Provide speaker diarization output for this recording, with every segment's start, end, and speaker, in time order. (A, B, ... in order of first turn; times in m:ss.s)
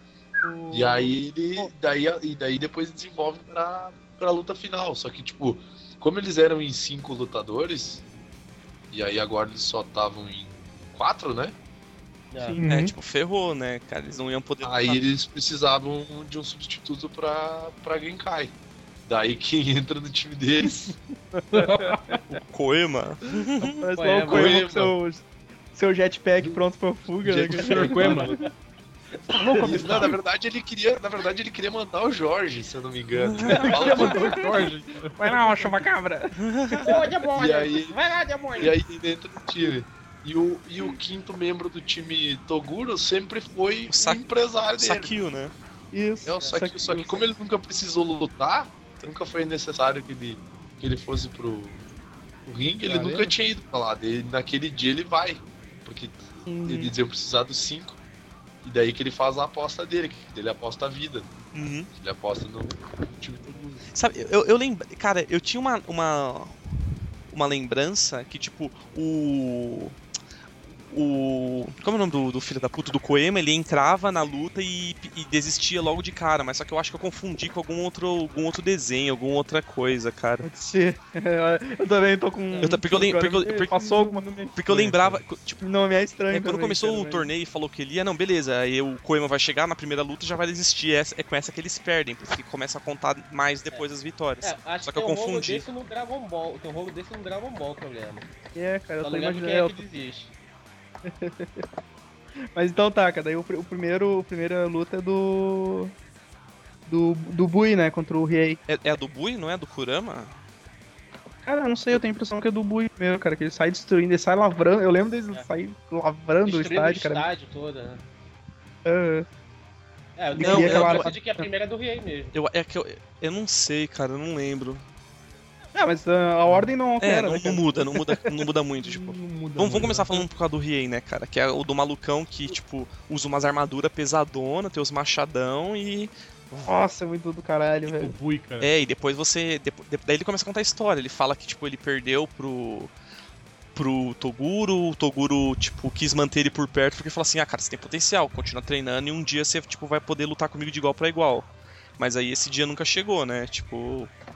0:00.4-0:01.7 A
0:00.7-0:08.0 B
0:08.9-0:11.5 B
0:12.3-0:12.6 C
0:12.4-0:12.6 A
0:12.6-0:12.9 D
0:12.6-0:15.0 E
0:14.6-0:18.5 B
0:19.1-0:20.8 B
0:21.5-0:22.2 A
0:21.5-0:21.9 D
0:22.3-0:23.8 E
0:23.8-0:28.4 A
0:23.9-0:24.6 C
0:24.3-0:24.9 B
0:27.2-0:28.3 B
0:27.5-0:28.3 D
0:28.1-0:28.4 C
0:29.5-0:30.1 D
0:29.5-0:30.1 A
0:29.6-0:34.3 B
0:33.2-0:34.0 E
0:33.6-0:37.0 A
0:33.7-0:35.8 D
0:36.4-0:36.9 E
0:36.8-0:38.8 C
0:37.3-0:38.0 B
0:38.6-0:45.1 B
0:43.9-0:44.2 E
0:44.8-0:45.5 E
0:45.9-0:47.3 A
0:46.2-0:51.8 B
0:52.4-0:58.0 B
0:52.9-0:53.2 A
0:56.5-0:56.9 A
0:58.6-1:01.3 B
1:01.5-1:01.9 E
1:02.0-1:03.8 B
1:03.9-1:06.5 E
1:07.3-1:10.0 E
1:10.9-1:20.4 E
1:20.4-1:24.4 A
1:22.6-1:23.9 E
1:23.5-1:25.2 D
1:24.5-1:25.6 E
1:25.6-1:27.3 A
1:26.3-1:35.6 E
1:34.4-1:38.2 C
1:38.5-1:39.8 A
1:39.0-1:40.3 C
1:41.0-1:41.6 A
1:42.5-1:45.9 A
1:46.9-1:48.6 A
1:48.7-1:50.4 E
1:51.4-1:57.3 A
1:56.4-1:58.0 C
1:58.8-1:59.2 A
2:00.2-2:02.3 C
2:00.3-2:01.4 A
2:00.4-2:01.1 E
2:02.3-2:04.8 E
2:05.7-2:08.3 A
2:07.0-2:16.7 E
2:08.9-2:10.2 D
2:16.6-2:18.1 A
2:17.9-2:18.7 D
2:18.6-2:22.9 E
2:23.7-2:34.1 E